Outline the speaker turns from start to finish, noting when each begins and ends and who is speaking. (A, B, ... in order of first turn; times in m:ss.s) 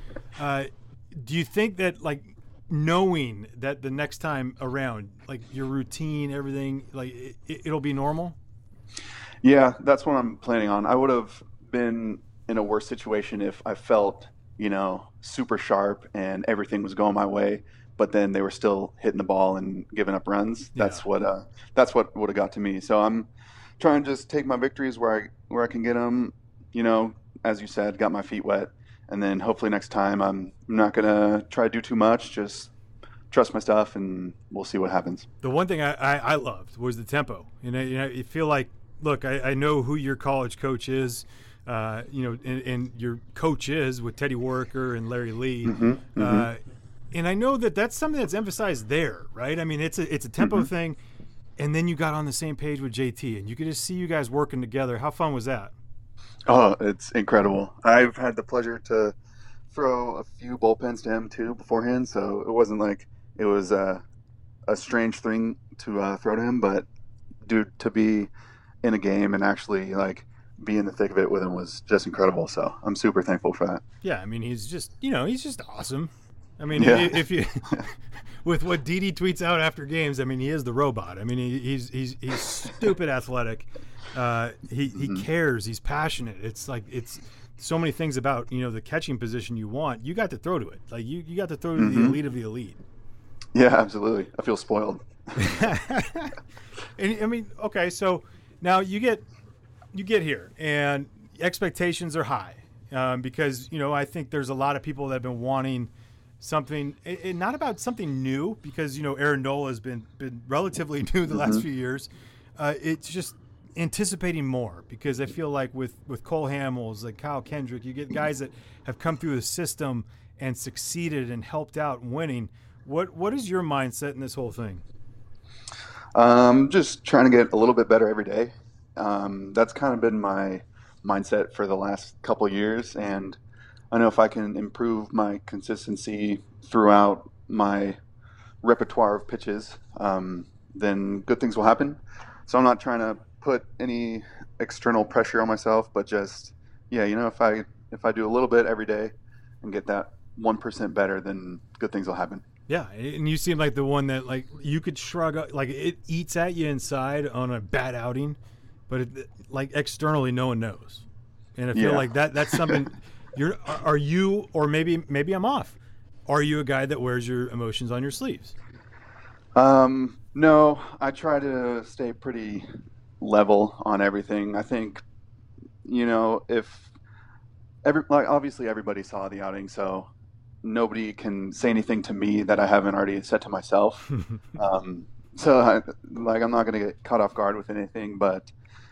0:00.4-0:08.4 A
0:09.4-0:32.7 B
0:20.7-0:21.0 A
0:33.3-0:35.2 B
0:35.4-0:46.6 A
0:45.6-0:46.5 B
0:47.1-0:51.0 A
0:50.4-0:50.7 B
0:51.6-0:55.7 A
0:56.5-0:59.2 B
0:59.7-1:04.0 B
1:04.7-1:06.9 B
1:07.4-1:08.3 B
1:08.8-1:13.8 B
1:14.0-1:32.8 A
1:16.7-1:17.2 B
1:24.9-1:25.2 B
1:31.8-1:32.2 B
1:33.5-1:35.6 B
1:35.4-1:36.4 A
1:37.0-1:39.2 A
1:39.9-2:04.8 A
1:51.3-1:51.6 B
2:06.1-2:13.4 B
2:13.9-2:18.0 B
2:18.6-2:32.4 B
2:32.7-2:38.4 A
2:38.9-2:41.0 A
2:41.6-2:48.5 A
2:41.7-2:42.8 B
2:49.5-2:52.7 B
2:53.2-2:55.0 B
2:55.8-2:56.9 B
2:57.8-3:00.1 B
3:00.6-3:08.5 B